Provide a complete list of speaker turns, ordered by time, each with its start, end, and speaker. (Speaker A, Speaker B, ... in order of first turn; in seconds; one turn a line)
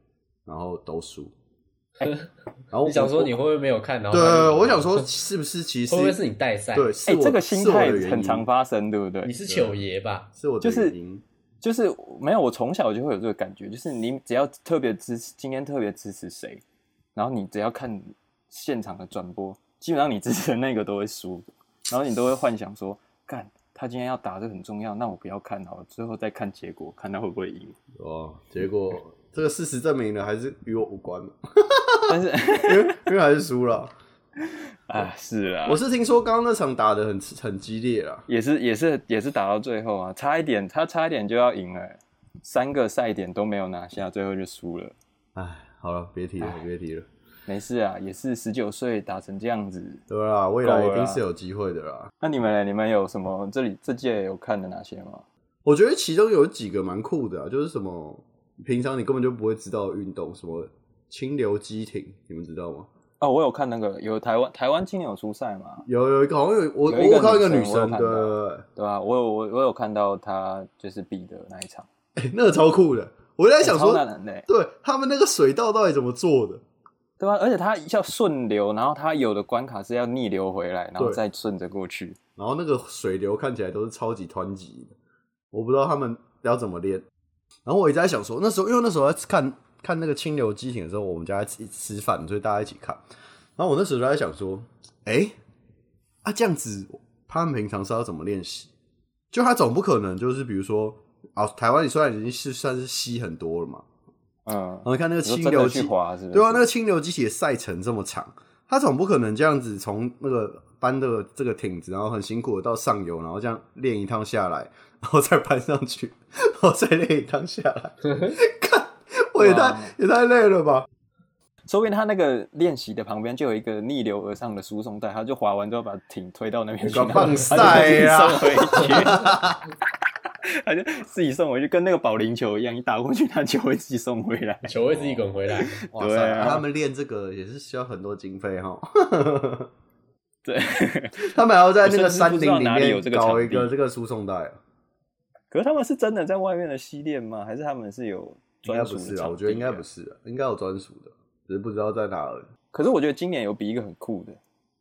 Speaker A: 0.5-1.3
Speaker A: 2.7-3.3
Speaker B: 2.8-5.1
Speaker A: 4.1-6.2
Speaker B: 5.9-6.9
Speaker A: 6.7-8.5
Speaker C: 7.1-9.3
Speaker B: 9.2-10.3
Speaker A: 9.5-9.8
Speaker A: 10.4-11.2
Speaker C: 10.6-11.0
Speaker C: 11.6-16.6
Speaker C: 17.2-27.8
Speaker A: 28.0-33.9
Speaker C: 32.1-33.1
Speaker C: 34.4-35.8
Speaker A: 35.7-38.3
Speaker C: 38.3-45.0
Speaker A: 45.4-47.1
Speaker C: 47.5-50.0
Speaker A: 50.1-52.1
Speaker C: 50.6-51.2
Speaker C: 52.2-55.2
Speaker A: 55.6-62.9
Speaker C: 63.2-65.9
Speaker A: 65.9-68.6
Speaker C: 66.9-71.9
Speaker A: 72.2-76.6
Speaker C: 73.6-74.5
Speaker C: 77.2-82.2
Speaker A: 82.4-85.0
Speaker A: 85.5-87.0
Speaker A: 87.7-93.0
Speaker A: 93.6-95.3
Speaker A: 96.2-98.7
Speaker A: 99.3-103.8
Speaker C: 104.5-106.7
Speaker A: 104.8-120.9
Speaker C: 119.4-120.0
Speaker C: 121.7-129.4
Speaker A: 126.9-129.7
Speaker C: 130.4-136.7
Speaker B: 134.6-135.8
Speaker A: 135.9-139.7
Speaker C: 140.4-143.7
Speaker A: 141.2-144.6
Speaker C: 145.5-149.8
Speaker A: 148.7-152.5
Speaker C: 152.7-154.4